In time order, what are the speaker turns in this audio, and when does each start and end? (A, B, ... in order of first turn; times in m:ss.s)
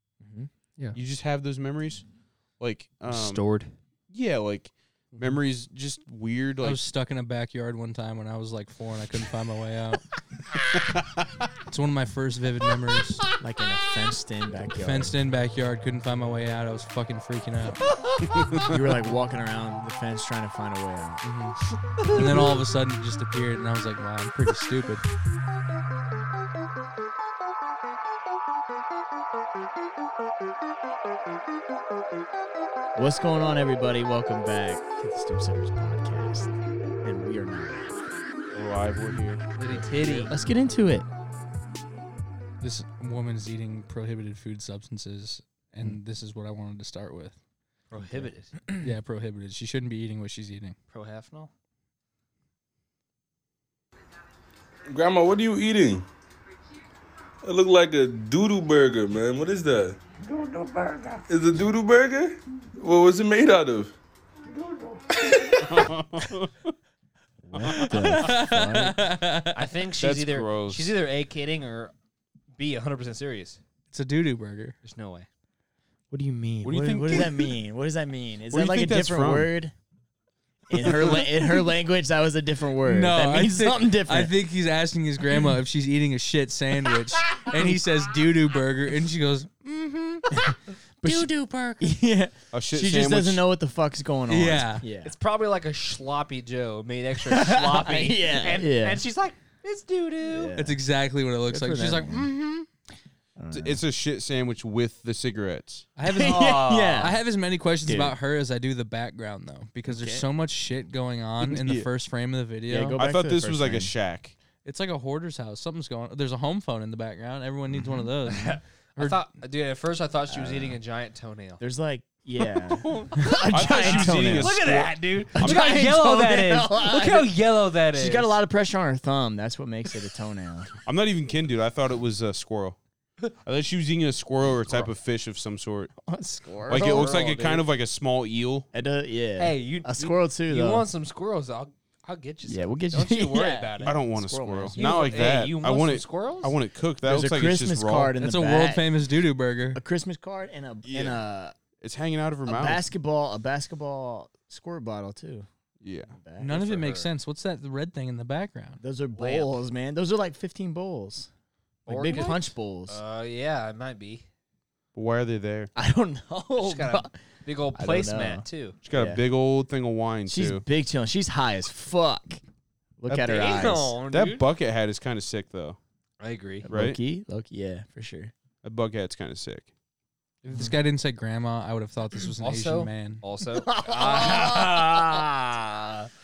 0:00.2-0:00.5 A
0:00.9-0:02.0 B
0:02.6-0:03.4 B
0:03.1-0:03.7 C
0:04.1-0:06.8 B
0:06.6-0:10.0 D
0:11.7-0:13.2 D
0:13.4-0:15.2 A
0:14.8-0:17.8 D
0:18.4-0:18.7 B
0:18.7-0:21.2 A
0:21.2-0:25.0 D
0:33.0-0:38.0 A
0:38.5-0:39.4 B
0:39.6-0:40.4 C
0:40.2-0:41.1 A
0:42.6-0:47.4 D
0:47.9-0:48.6 C
0:48.8-0:50.8 D
0:50.9-0:51.5 C
0:54.9-0:56.1 E
0:57.4-1:04.0 E
1:05.6-1:06.7 B
1:07.5-1:09.0 A
1:07.6-1:07.9 C
1:07.9-1:09.6 D
1:09.5-1:11.9 C
1:10.0-1:10.9 B
1:12.6-1:13.6 C
1:13.9-1:14.8 D
1:14.8-1:15.3 C
1:16.1-1:19.7 A
1:16.6-1:17.5 B
1:18.5-1:19.5 B
1:20.7-1:24.3 A
1:20.8-1:21.3 D
1:22.8-1:30.5 D
1:27.3-1:27.8 A
1:30.3-1:35.2 A
1:31.0-1:31.8 D
1:32.5-1:33.4 B
1:34.3-1:34.8 D
1:35.0-1:40.5 C
1:37.2-1:39.0 A
1:40.3-1:40.8 A
1:40.6-1:42.7 D
1:41.5-1:42.3 A
1:43.4-1:43.8 A
1:43.5-1:45.9 B
1:46.0-1:53.0 D
1:46.0-1:47.2 A
1:47.9-1:48.2 A
1:49.9-1:50.3 A
1:51.4-1:51.9 B
1:52.7-1:53.9 A
1:53.0-1:54.4 B
1:54.6-1:59.2 D
1:58.3-2:01.6 C
2:00.3-2:00.8 A
2:01.6-2:04.6 A
2:02.7-2:08.3 C
2:03.5-2:05.6 B
2:05.4-2:07.3 A
2:07.9-2:10.7 A
2:10.8-2:12.8 B
2:13.4-2:15.9 B
2:16.0-2:17.2 A
2:16.7-2:17.7 C
2:16.7-2:18.7 B
2:18.7-2:20.9 A
2:19.4-2:24.0 C
2:22.4-2:24.9 A
2:23.8-2:28.2 B
2:24.7-2:26.6 C
2:27.0-2:28.8 A
2:28.2-2:29.8 D
2:29.8-2:31.6 A
2:30.9-2:31.2 B
2:31.8-2:32.9 B
2:32.4-2:35.5 A
2:35.8-2:36.2 B
2:36.1-2:36.6 A
2:36.4-2:38.8 D
2:36.4-2:37.1 C
2:38.8-2:41.3 A
2:39.2-2:39.5 C
2:41.9-2:43.0 A
2:41.9-2:44.3 C
2:44.9-2:45.7 B
2:45.8-2:47.2 A
2:46.6-2:48.8 C
2:47.7-2:49.2 A
2:48.8-2:50.6 B
2:50.3-2:52.4 A
2:53.0-2:54.0 A
2:53.1-2:54.5 C
2:53.4-2:55.8 B
2:56.2-2:56.7 C
2:56.7-2:58.3 A
2:56.7-2:57.0 B
2:58.6-2:59.7 B
3:00.4-3:00.7 C
3:00.5-3:03.2 D
3:02.4-3:05.3 C
3:03.6-3:06.1 A